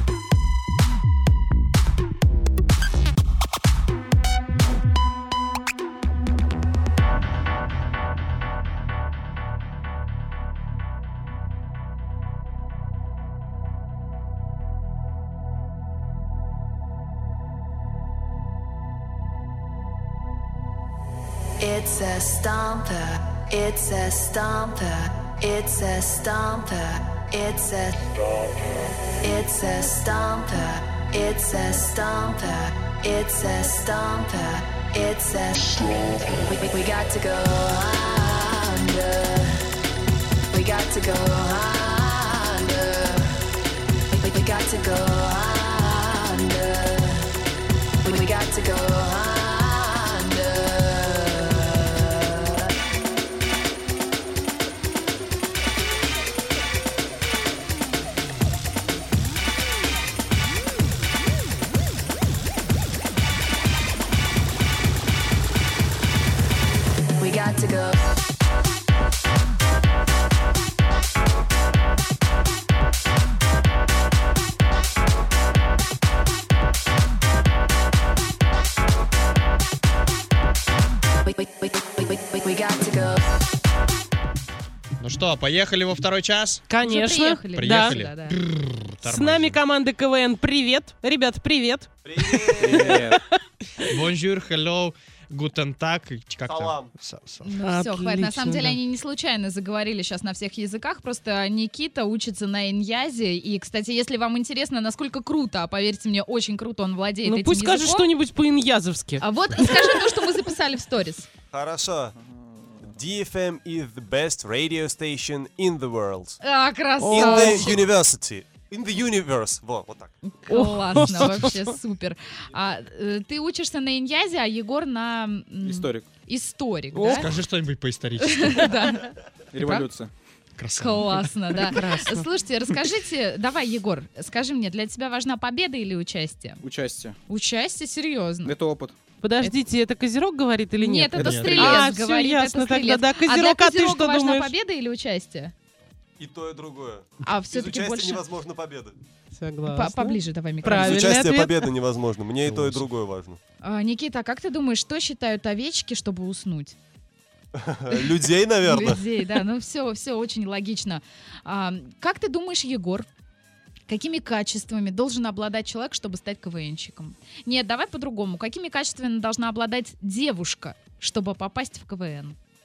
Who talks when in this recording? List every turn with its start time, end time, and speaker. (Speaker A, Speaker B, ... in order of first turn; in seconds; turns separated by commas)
Speaker A: 21.6-28.0, Speaker A: 29.2-35.6, Speaker A: 36.5-39.5, Speaker A: 40.5-43.3, Speaker A: 44.1-47.2, Speaker A: 48.0-52.0, Speaker A: 67.2-68.0, Speaker A: 81.3-83.2, Speaker B: 85.0-86.6, Speaker C: 86.7-87.9, Speaker D: 86.8-88.3, Speaker B: 87.5-89.6, Speaker C: 89.0-93.0, Speaker E: 92.0-93.0, Speaker F: 92.7-93.2, Speaker B: 93.8-97.5, Speaker E: 96.5-96.9, Speaker D: 97.4-108.1, Speaker C: 97.6-98.8, Speaker C: 107.2-110.0, Speaker D: 109.2-111.2, Speaker E: 111.5-112.2, Speaker E: 112.9-116.4, Speaker D: 116.4-117.7, Speaker C: 117.0-117.7, Speaker E: 117.1-120.1, Speaker D: 120.2-127.3, Speaker C: 120.5-121.5, Speaker B: 121.0-121.4, Speaker F: 125.6-126.1, Speaker B: 126.9-128.7, Speaker D: 128.2-129.1, Speaker F: 129.5-130.1, Speaker B: 130.6-131.7, Speaker D: 130.8-136.6, Speaker C: 131.7-132.2, Speaker F: 136.6-137.2, Speaker D: 137.3-138.6, Speaker F: 138.4-138.9, Speaker C: 139.2-144.5, Speaker D: 140.8-145.5, Speaker B: 141.2-141.8, Speaker E: 146.2-148.9, Speaker D: 147.2-148.2, Speaker C: 149.4-151.7, Speaker D: 149.7-151.1, Speaker E: 150.7-153.4, Speaker B: 152.5-152.8, Speaker D: 153.6-156.7, Speaker E: 157.5-159.0, Speaker D: 158.6-163.1, Speaker D: 163.9-172.3